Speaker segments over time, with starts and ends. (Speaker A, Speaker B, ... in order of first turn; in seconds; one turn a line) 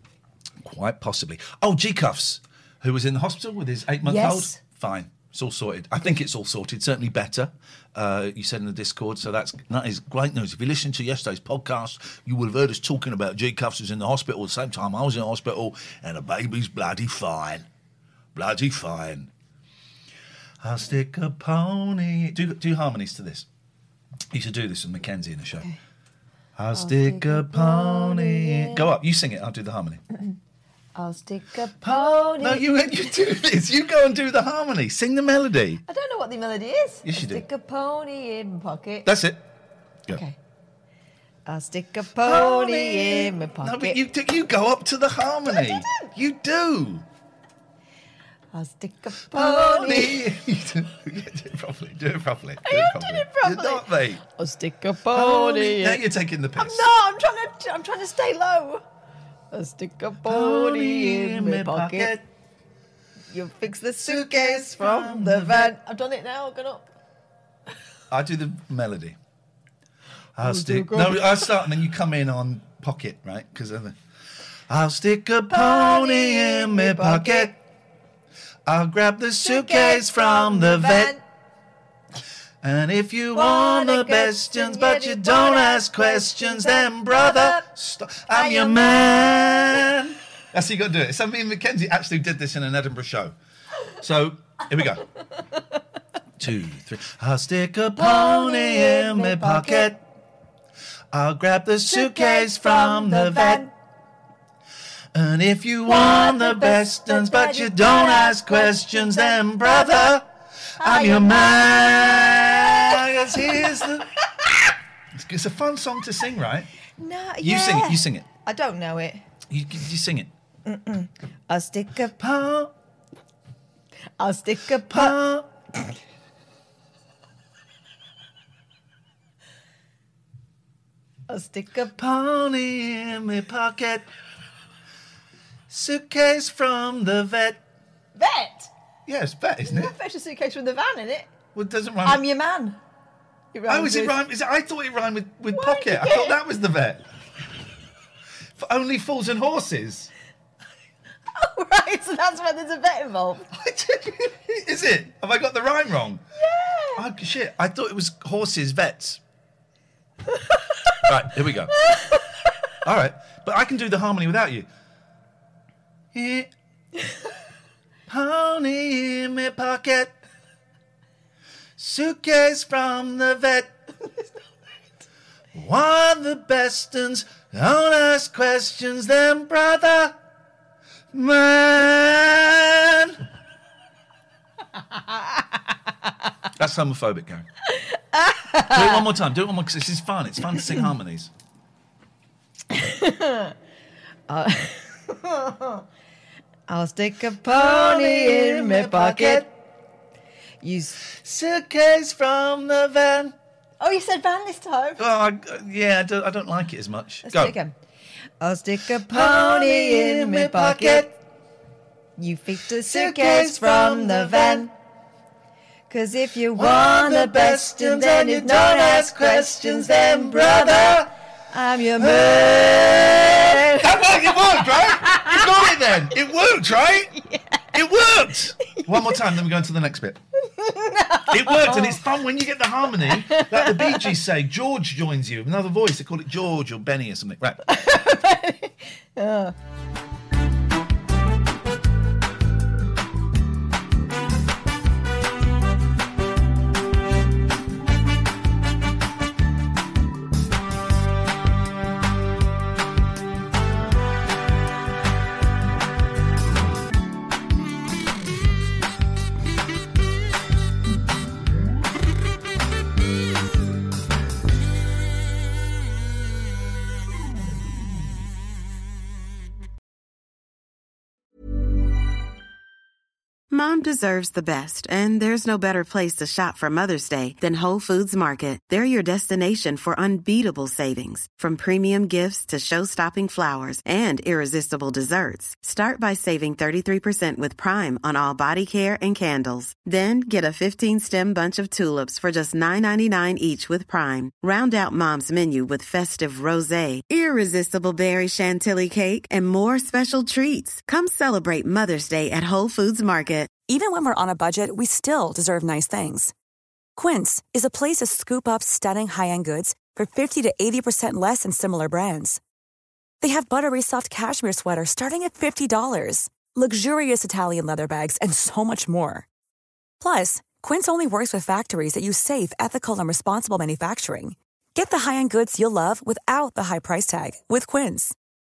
Speaker A: 0.6-17.7
Speaker B: 4.0-4.6
Speaker A: 18.3-19.3
Speaker A: 20.6-23.5
Speaker A: 24.3-25.7
Speaker A: 26.6-30.0
Speaker B: 26.7-28.9
Speaker B: 30.9-33.0
Speaker A: 31.8-35.8
Speaker B: 35.9-39.1
Speaker A: 37.0-37.4
Speaker A: 39.0-39.4
Speaker B: 41.5-44.0
Speaker A: 42.2-47.0
Speaker B: 45.5-46.1
Speaker B: 48.5-50.2
Speaker A: 49.3-54.2
Speaker B: 52.6-56.0
Speaker A: 55.1-56.9
Speaker B: 56.6-58.8
Speaker B: 59.5-62.1
Speaker A: 60.2-62.3
Speaker B: 63.3-66.9
Speaker A: 64.0-65.7
Speaker A: 68.1-69.2
Speaker A: 70.3-74.0
Speaker B: 70.4-71.4
Speaker A: 74.7-77.6
Speaker B: 75.5-77.5
Speaker A: 78.7-81.2
Speaker B: 79.4-81.2
Speaker A: 82.6-93.3
Speaker B: 83.3-87.7
Speaker B: 88.3-89.9
Speaker A: 94.0-95.0
Speaker A: 96.4-100.0
Speaker B: 98.0-99.9
Speaker A: 101.1-103.7
Speaker B: 101.9-103.7
Speaker A: 105.1-110.3
Speaker B: 105.8-110.2
Speaker B: 110.8-113.6
Speaker A: 110.8-114.1
Speaker A: 115.1-116.7
Speaker B: 117.0-119.2
Speaker A: 117.4-118.2
Speaker A: 119.5-120.3
Speaker B: 120.6-122.2
Speaker A: 122.2-122.7
Speaker B: 124.2-125.2
Speaker A: 124.9-125.5
Speaker B: 131.3-131.9
Speaker A: 131.9-134.1
Speaker A: 135.7-137.6
Speaker B: 138.2-138.7
Speaker A: 139.1-139.9
Speaker B: 139.7-141.3
Speaker A: 141.5-142.2
Speaker B: 142.0-142.8
Speaker B: 143.5-144.2
Speaker A: 143.7-147.1
Speaker B: 145.5-146.4
Speaker A: 148.6-150.1
Speaker B: 151.3-153.5
Speaker A: 153.5-156.2
Speaker B: 156.4-157.1
Speaker A: 156.9-159.2
Speaker A: 161.0-161.8
Speaker A: 162.8-164.7
Speaker A: 166.1-166.5
Speaker A: 168.1-170.2
Speaker A: 171.8-173.7
Speaker A: 175.5-180.2
Speaker A: 181.1-183.2
Speaker A: 186.6-187.4
Speaker B: 187.9-189.1
Speaker A: 188.7-191.3
Speaker B: 192.7-193.5
Speaker B: 194.3-195.8
Speaker B: 196.7-199.5
Speaker A: 197.4-199.5
Speaker B: 200.6-201.0
Speaker A: 201.0-203.3
Speaker B: 203.8-205.0
Speaker A: 205.0-207.6
Speaker B: 207.2-207.8
Speaker B: 208.4-211.1
Speaker A: 209.1-211.1
Speaker B: 212.2-214.7
Speaker A: 212.8-214.7
Speaker B: 215.9-221.0
Speaker A: 216.5-221.1
Speaker B: 221.5-223.8
Speaker A: 222.0-227.2
Speaker B: 225.1-225.4
Speaker B: 227.2-227.6
Speaker A: 227.7-230.2
Speaker B: 228.6-228.9
Speaker B: 230.6-232.0
Speaker A: 231.3-237.6
Speaker B: 233.1-234.1
Speaker B: 237.6-239.5
Speaker C: 273.5-303.5
Speaker D: 303.6-306.3
Speaker D: 306.9-312.4
Speaker D: 313.2-319.3
Speaker D: 320.0-328.1